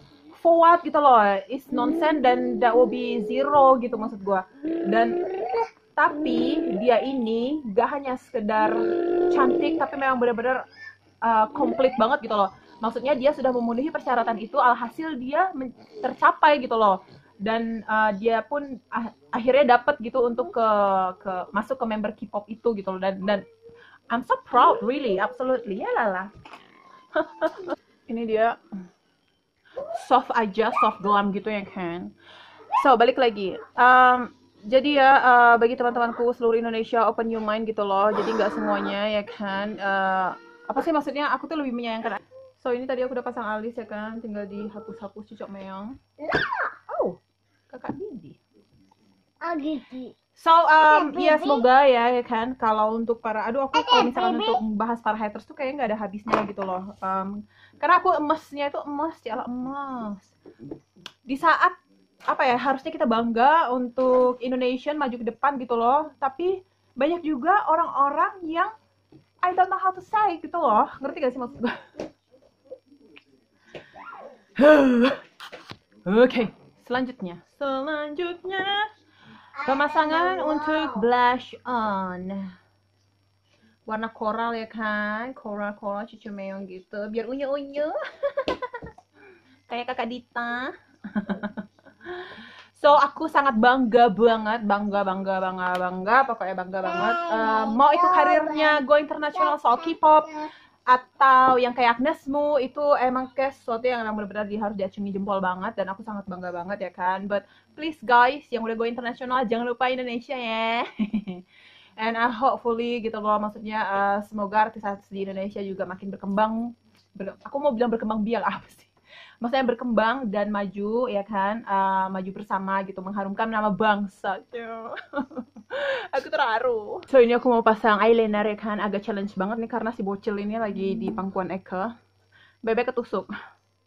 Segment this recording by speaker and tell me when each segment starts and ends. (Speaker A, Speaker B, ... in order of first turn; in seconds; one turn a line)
Speaker A: 0.3-5.2
Speaker A: 6.0-10.6
Speaker A: 11.2-23.4
Speaker A: 24.1-26.3
Speaker A: 27.1-28.6
Speaker A: 29.8-32.1
Speaker A: 32.7-45.9
Speaker A: 46.9-47.2
Speaker A: 47.7-48.4
Speaker B: 49.4-50.1
Speaker A: 50.4-60.3
Speaker B: 50.9-51.6
Speaker B: 53.7-54.6
Speaker A: 61.2-61.8
Speaker A: 62.3-68.7
Speaker A: 69.4-71.8
Speaker A: 74.5-75.2
Speaker A: 76.0-78.9
Speaker B: 79.6-81.0
Speaker A: 79.6-82.5
Speaker A: 83.9-88.8
Speaker A: 89.7-91.6
Speaker A: 92.2-100.4
Speaker B: 96.8-98.8
Speaker B: 99.5-100.5
Speaker A: 100.9-111.4
Speaker A: 112.0-131.9
Speaker A: 132.6-133.3